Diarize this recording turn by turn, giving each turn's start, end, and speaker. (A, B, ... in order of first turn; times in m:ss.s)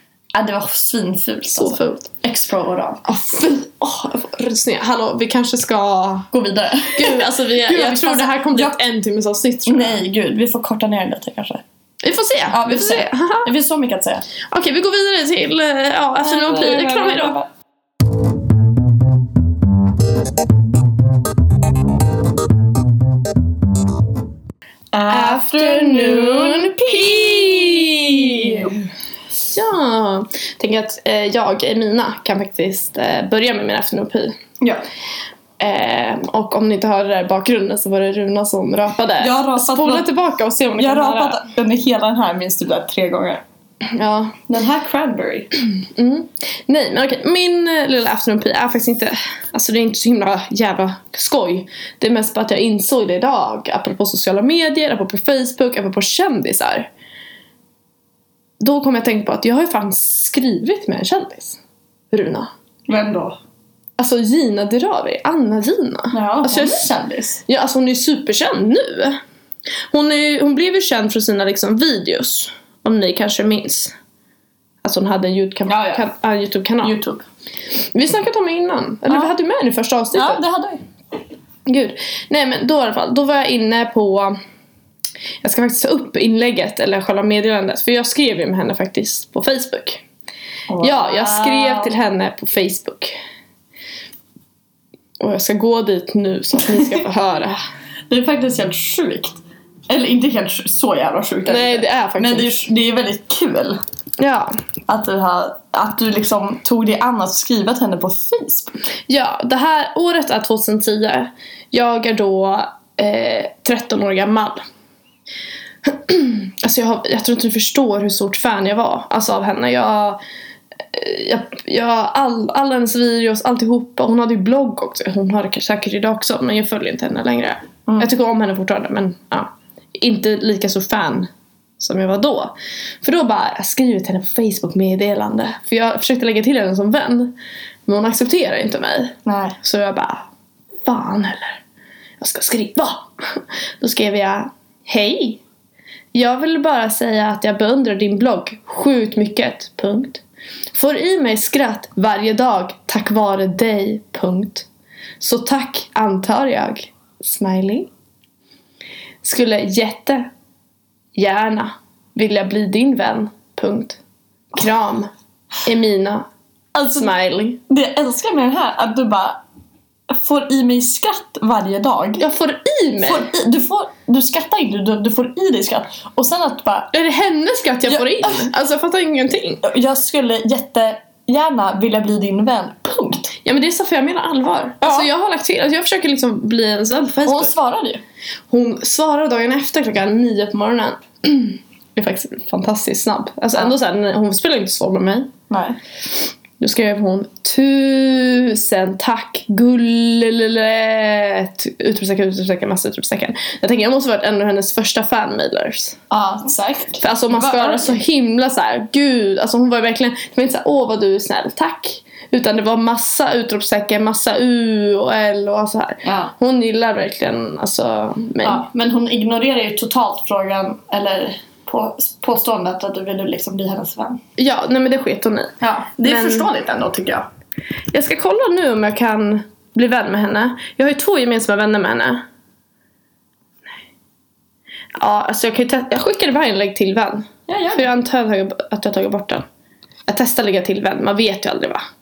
0:00.3-0:03.0 A
0:01.5-0:02.1 B
0:03.0-0:06.3 B
0:06.3-0:08.8 A
0:06.9-0:10.0 B
0:09.7-0:11.6 A
0:12.0-0:13.5 B
0:12.5-0:14.2 A
0:14.4-0:17.4 B
0:16.2-0:17.5 A
0:24.9-0:28.8 A
0:25.1-0:28.7 B
0:29.5-0:34.4 B
0:35.6-0:41.4 B
0:39.2-0:40.1 A
0:40.8-0:43.4 A
0:43.9-0:44.4 B
0:44.5-0:45.5 A
0:45.8-0:56.9 B
0:58.6-1:01.6 B
1:02.1-1:02.5 B
1:02.9-1:03.4 A
1:04.0-1:06.9 B
1:06.1-1:07.4 A
1:07.4-1:09.2 B
1:09.9-1:13.9 B
1:14.8-1:16.9 B
1:15.6-1:16.0 A
1:16.8-1:17.2 A
1:17.8-1:20.4 B
1:20.1-1:20.8 A
1:21.6-1:24.4 B
1:25.4-1:30.0 B
1:30.7-1:31.9 A
1:30.8-1:33.2 B
1:35.2-1:37.6 B
1:38.1-1:39.4 A
1:39.9-1:43.8 A
1:41.5-1:42.5 B
1:44.2-1:44.6 B
1:44.9-1:48.8 A
1:49.1-1:54.6 B
1:55.8-2:00.2 B
2:00.9-2:17.4 B
2:17.9-2:20.2 B
2:19.2-2:19.6 A
2:20.8-2:21.6 B
2:22.2-2:25.4 B
2:26.1-2:34.7 B
2:35.2-2:37.9 B
2:39.2-2:40.3 B
2:41.1-2:44.0 B
2:44.5-2:45.1 B
2:45.6-2:46.2 B
2:46.7-2:47.1 A
2:47.0-2:47.6 B
2:47.7-2:49.4 A
2:50.1-2:52.2 A
2:52.2-2:53.3 B
2:53.0-2:56.9 A
2:56.9-2:59.6 B
2:57.9-2:58.5 A
2:59.6-3:03.3 A
3:03.4-3:07.5 B
3:04.8-3:05.1 A
3:07.2-3:08.0 A
3:08.5-3:15.3 B
3:15.5-3:15.8 A
3:16.6-3:26.0 B
3:26.1-3:28.0 A
3:27.0-3:38.6 B
3:36.0-3:36.3 A
3:38.4-3:44.2 A
3:44.4-3:46.5 B
3:45.6-3:47.3 A
3:47.9-3:52.2 B
3:54.9-3:59.4 B
3:57.5-3:57.9 A
4:00.1-4:01.8 B